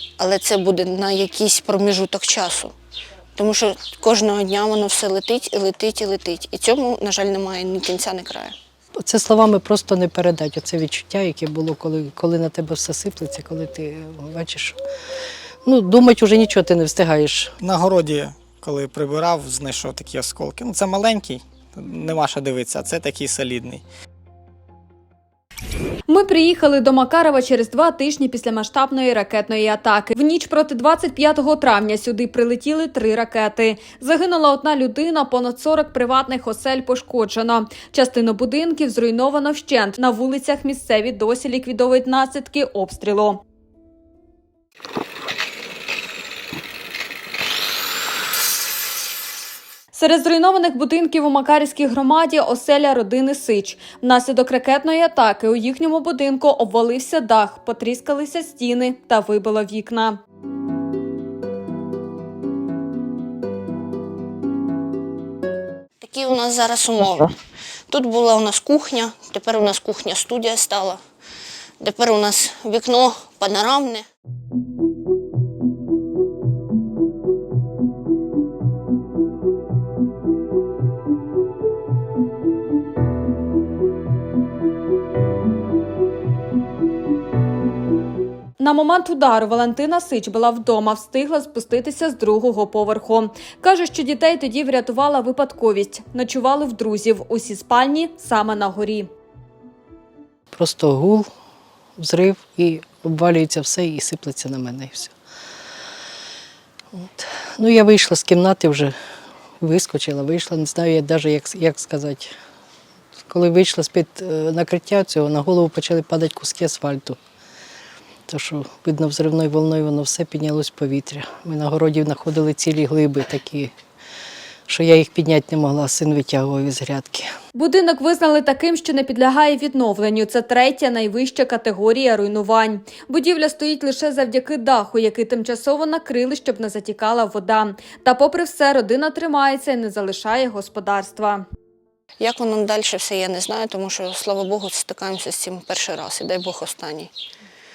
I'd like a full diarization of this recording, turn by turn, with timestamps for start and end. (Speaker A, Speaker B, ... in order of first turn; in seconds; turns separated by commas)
Speaker A: 0.2-2.7, Speaker A: 3.4-8.6, Speaker B: 9.0-14.8, Speaker B: 15.7-17.5, Speaker C: 17.6-23.8, Speaker D: 26.1-43.4, Speaker D: 49.9-60.2, Speaker A: 66.0-67.4, Speaker A: 67.9-71.0, Speaker A: 71.8-74.1, Speaker D: 88.6-99.1, Speaker B: 100.5-101.3, Speaker B: 102.0-105.1, Speaker B: 106.9-109.0, Speaker B: 109.6-112.3, Speaker B: 113.3-117.2, Speaker B: 118.3-123.7, Speaker B: 124.7-127.3, Speaker D: 127.5-141.4, Speaker A: 142.2-147.1